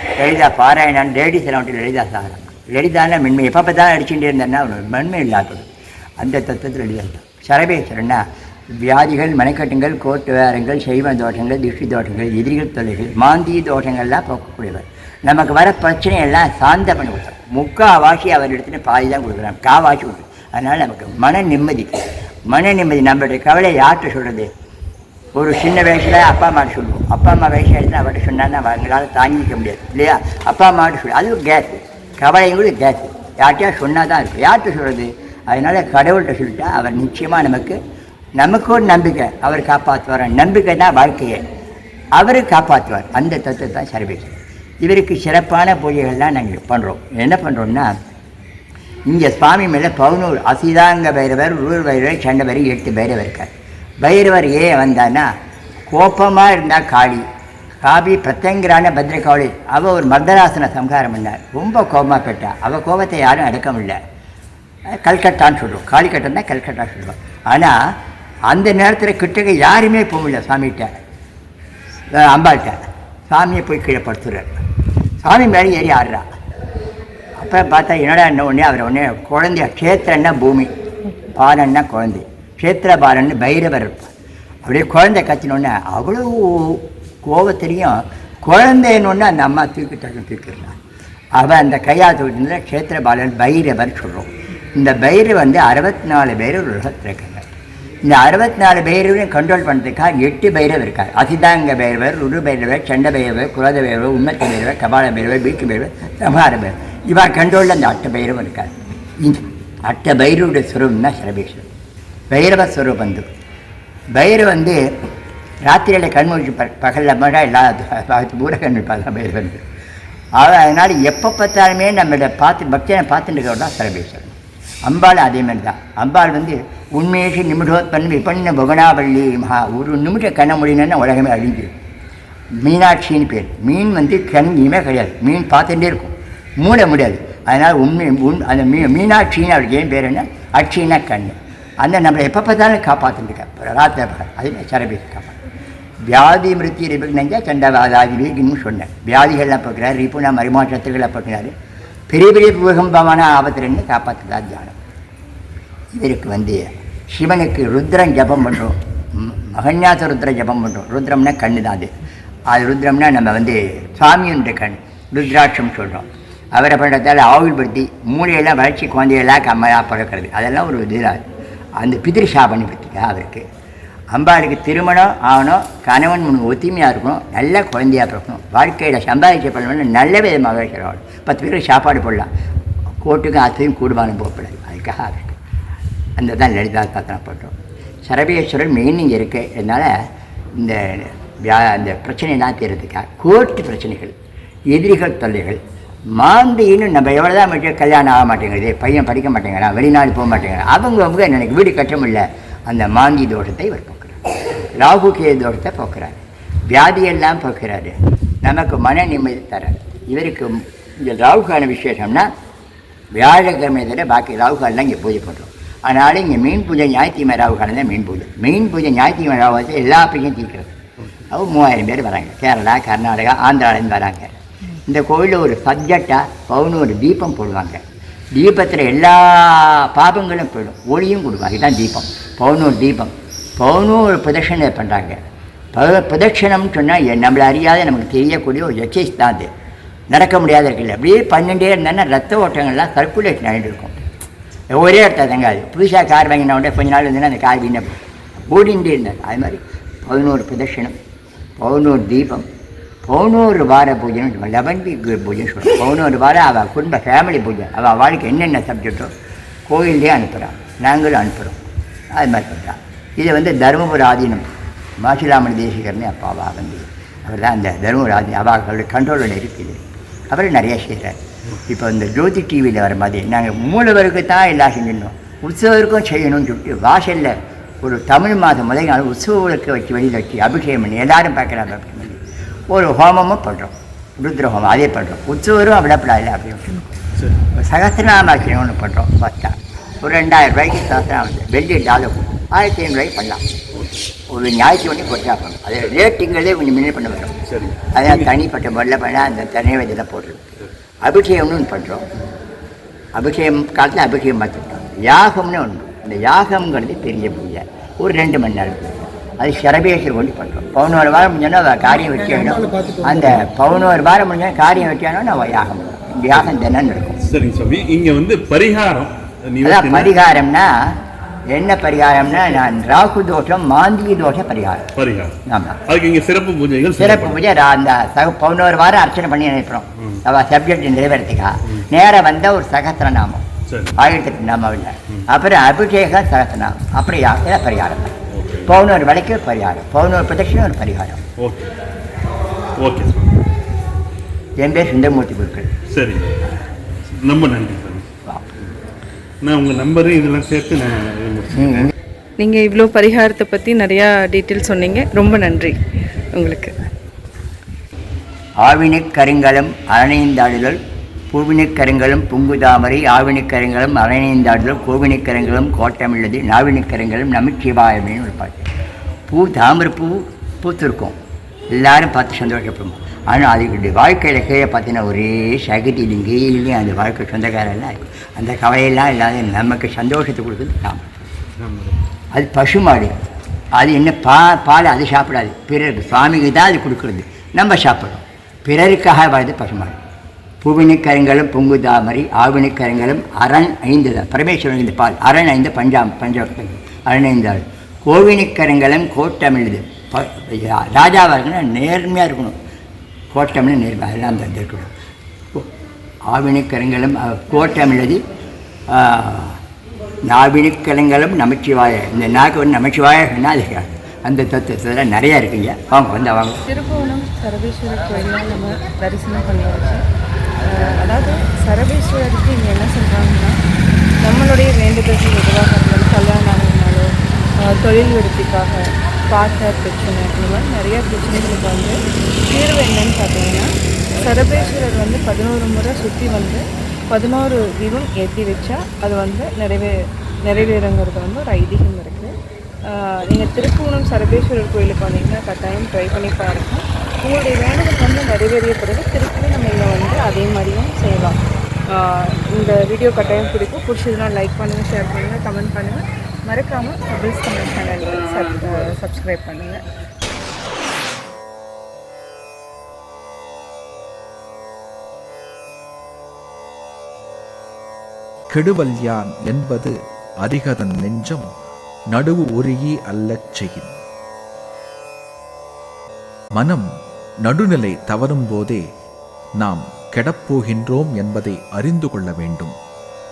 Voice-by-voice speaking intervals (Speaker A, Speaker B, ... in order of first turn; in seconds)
Speaker A: 0.2-5.7, 6.2-8.2, 8.8-24.5, 25.4-37.8, 38.4-41.4, 42.1-47.9, 49.1-53.5, 54.0-55.3, 55.9-57.2, 57.8-64.0, 64.9-67.8, 68.5-70.9, 72.1-72.8, 73.3-74.6, 75.2-76.2, 77.4-80.7, 81.3-84.1, 84.7-90.8, 91.4-97.5, 98.0-111.7, 112.3-113.2, 114.1-115.0, 115.7-119.6, 120.4-131.7, 132.6-145.4, 146.0-151.5, 152.1-154.8, 155.9-161.9, 162.5-171.2, 171.8-173.4, 174.1-182.3, 183.0-185.4, 186.2-189.9, 190.6-194.1, 194.7-195.6, 196.1-212.3, 213.2-220.8, 221.3-227.8, 228.3-235.2, 235.7-239.5, 240.1-244.0, 244.7-247.9, 248.5-250.9, 251.6-252.5, 253.1-259.1, 259.7-264.5, 265.0-282.2, 282.7-287.0, 287.5-293.4, 294.3-297.3, 297.9-300.5, 301.0-302.1, 303.1-317.2, 319.6-320.7, 321.5-324.9, 325.5-325.8, 327.0-333.4, 334.0-341.2, 344.6-345.7, 358.6-360.8, 361.3-368.7, 369.3-371.2, 371.7-381.3, 382.3-383.2, 383.8-390.0, 390.6-402.6, 403.3-404.9, 406.3-408.2, 408.9-409.6, 410.3-416.6
Speaker B: 297.5-298.3, 317.2-320.1, 325.0-325.3, 325.9-327.4, 338.3-338.8, 341.4-341.7, 342.8-343.3, 345.9-346.3, 347.2-348.0, 349.4-351.9, 381.6-382.0
Speaker C: 352.4-355.8, 356.3-356.7, 416.7-420.0, 420.6-423.6, 424.2-427.1, 427.6-432.0, 432.5-442.3, 442.9-451.4, 451.9-459.8
Speaker D: 468.5-471.5, 472.1-473.9, 476.5-476.9, 477.4-478.8, 479.6-482.7